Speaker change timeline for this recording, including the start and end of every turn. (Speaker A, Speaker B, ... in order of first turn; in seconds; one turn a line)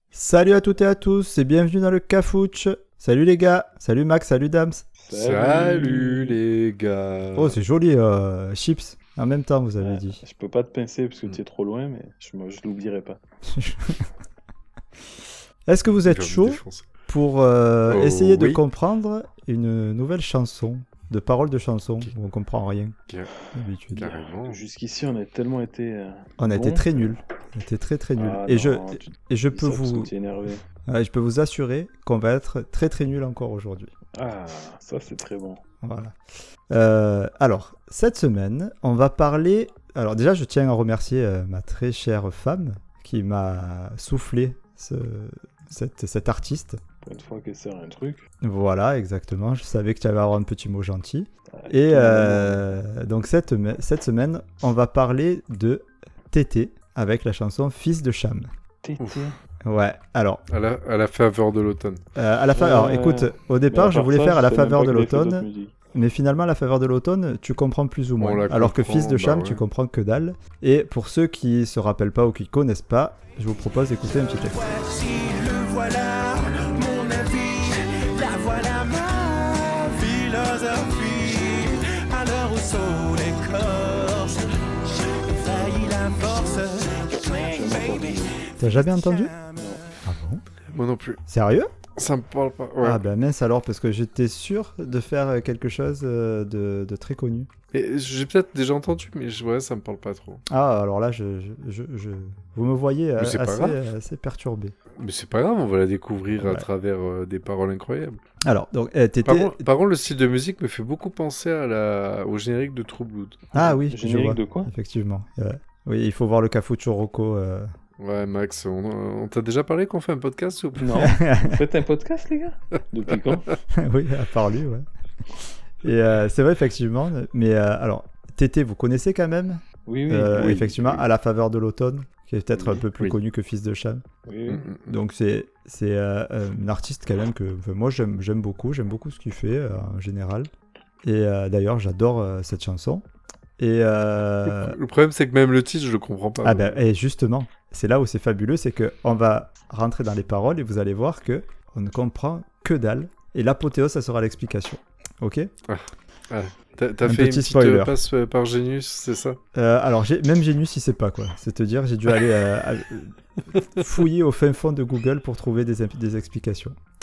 Speaker A: 0.1-4.9
Speaker B: 5.0-6.4
Speaker C: 5.1-7.6
Speaker A: 7.4-10.2
Speaker B: 9.8-13.2
Speaker A: 13.5-14.1
Speaker A: 15.7-23.0
Speaker C: 15.9-16.9
Speaker C: 17.9-18.6
Speaker A: 23.5-24.1
Speaker C: 23.9-24.6
Speaker B: 24.5-27.2
Speaker A: 26.4-30.1
Speaker B: 28.2-30.6
Speaker A: 30.9-33.9
Speaker B: 34.1-35.6
Speaker A: 35.8-36.2
Speaker A: 36.7-46.8
Speaker B: 47.0-48.3
Speaker A: 48.4-58.5
Speaker B: 51.5-52.8
Speaker B: 58.8-59.4
Speaker A: 59.6-60.4
Speaker C: 60.5-62.0
Speaker A: 62.2-74.7
Speaker B: 62.5-65.8
Speaker C: 68.2-69.6
Speaker D: 74.5-89.8
Speaker B: 87.3-88.4
Speaker A: 88.6-89.3
Speaker B: 89.6-89.8
Speaker A: 90.0-90.4
Speaker C: 90.7-91.2
Speaker A: 91.3-91.7
Speaker C: 92.0-93.0
Speaker A: 92.8-97.5
Speaker C: 97.7-100.4
Speaker A: 100.5-104.8
Speaker C: 103.2-103.8
Speaker C: 105.0-108.2
Speaker A: 106.4-106.7
Speaker A: 108.4-109.6
Speaker C: 109.2-113.6
Speaker A: 113.5-117.7
Speaker B: 113.9-114.7
Speaker C: 118.0-121.2
Speaker B: 120.8-123.5
Speaker A: 121.0-121.6
Speaker A: 123.7-134.0
Speaker B: 129.9-131.0
Speaker B: 132.6-132.8
Speaker B: 134.3-134.7
Speaker C: 134.5-134.9
Speaker A: 134.9-140.5
Speaker A: 141.0-143.1
Speaker A: 143.6-144.8
Speaker C: 144.5-146.8
Speaker A: 146.4-155.5
Speaker C: 155.7-159.4
Speaker A: 157.1-157.9
Speaker A: 159.5-166.8
Speaker C: 163.6-163.8